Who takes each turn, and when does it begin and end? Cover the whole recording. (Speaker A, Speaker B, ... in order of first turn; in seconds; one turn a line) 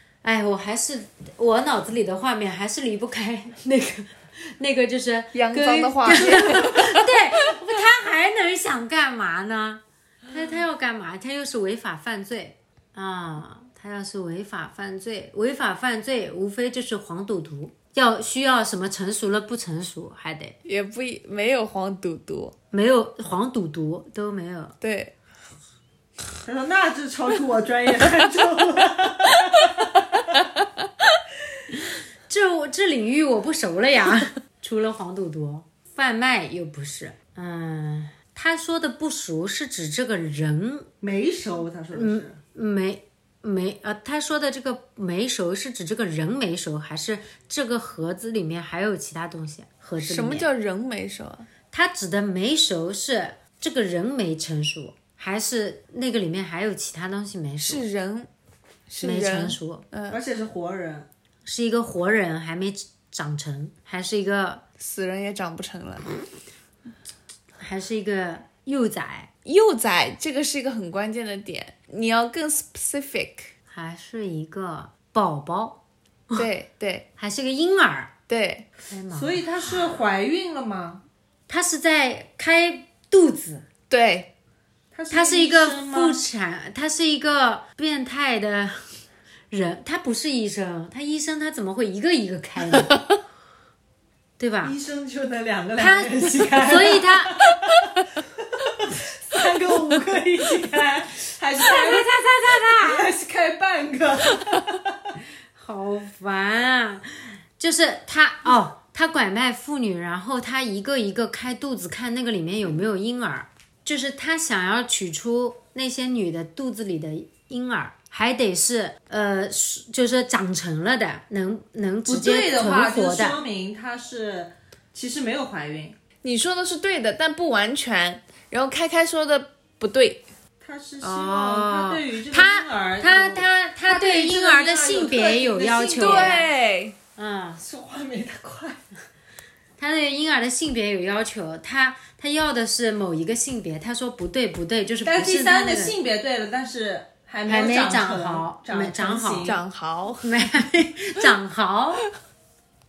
Speaker A: 0.2-20.6
Speaker B: 5.3-7.5
Speaker B: 20.6-22.5
Speaker A: 22.7-24.8
Speaker B: 24.8-25.1
Speaker C: 26.4-29.9
Speaker B: 29.3-30.6
Speaker A: 32.3-40.9
Speaker C: 41.0-42.4
Speaker A: 41.9-50.5
Speaker B: 50.0-51.5
Speaker A: 51.7-57.9
Speaker B: 57.6-58.3
Speaker B: 58.9-60.2
Speaker A: 59.0-59.8
Speaker C: 60.1-61.1
Speaker A: 61.4-64.6
Speaker B: 64.8-66.1
Speaker A: 67.6-69.3
Speaker B: 69.4-73.5
Speaker A: 73.7-75.8
Speaker B: 76.3-77.0
Speaker A: 77.2-78.1
Speaker B: 78.3-78.7
Speaker A: 78.9-79.5
Speaker C: 79.1-81.0
Speaker A: 81.5-83.7
Speaker B: 83.9-84.3
Speaker C: 84.9-86.2
Speaker A: 85.1-88.9
Speaker A: 89.5-92.9
Speaker A: 94.4-94.8
Speaker C: 94.6-97.5
Speaker A: 95.8-97.4
Speaker C: 98.4-105.2
Speaker A: 101.6-103.1
Speaker A: 105.5-123.4
Speaker C: 122.1-126.0
Speaker B: 126.2-130.2
Speaker C: 130.6-136.4
Speaker A: 131.0-136.5
Speaker B: 136.0-136.9
Speaker A: 137.2-137.6
Speaker C: 137.6-138.8
Speaker A: 139.8-146.0
Speaker C: 145.0-149.6
Speaker A: 147.4-149.6
Speaker B: 149.4-150.3
Speaker A: 150.2-152.0